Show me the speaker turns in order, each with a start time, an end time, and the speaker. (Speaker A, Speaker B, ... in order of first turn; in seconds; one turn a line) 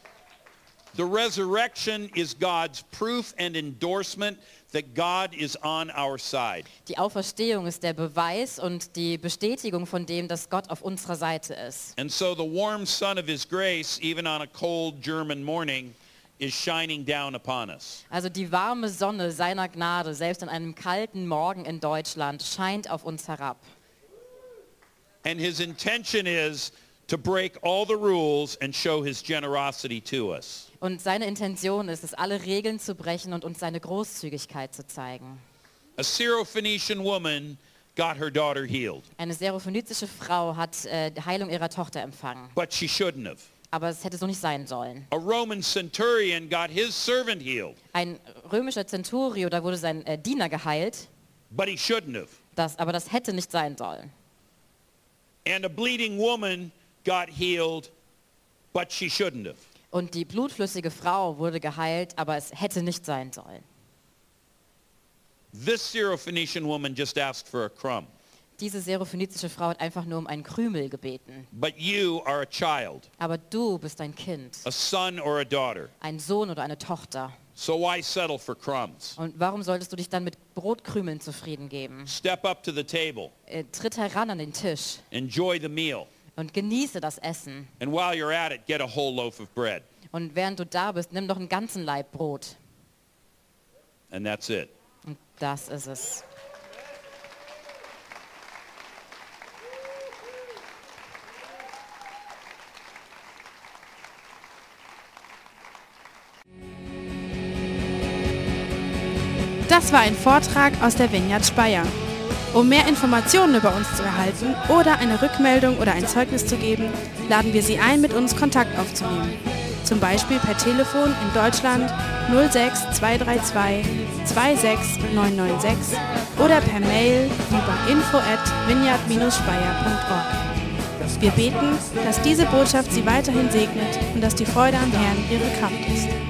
Speaker A: 0.9-6.7
Speaker B: 6.8-11.9
Speaker A: 12.0-18.0
Speaker B: 18.1-23.6
Speaker A: 25.2-30.7
Speaker B: 30.8-35.4
Speaker A: 36.0-39.0
Speaker B: 39.2-42.5
Speaker A: 42.5-43.5
Speaker B: 43.7-45.1
Speaker A: 45.1-47.8
Speaker B: 47.9-51.1
Speaker A: 51.5-52.3
Speaker B: 52.5-54.1
Speaker A: 55.4-57.9
Speaker A: 58.7-59.6
Speaker B: 59.9-63.6
Speaker A: 65.5-68.1
Speaker B: 68.6-71.5
Speaker A: 71.5-73.1
Speaker B: 73.2-74.7
Speaker A: 74.6-75.9
Speaker B: 76.0-77.3
Speaker A: 77.6-79.2
Speaker B: 79.2-82.1
Speaker A: 82.1-83.3
Speaker B: 83.5-85.0
Speaker A: 85.1-86.1
Speaker B: 86.3-87.7
Speaker A: 87.8-89.8
Speaker B: 90.1-92.6
Speaker A: 94.1-94.7
Speaker B: 95.0-96.2
Speaker C: 109.7-111.9
Speaker C: 112.5-130.3
Speaker C: 131.1-136.1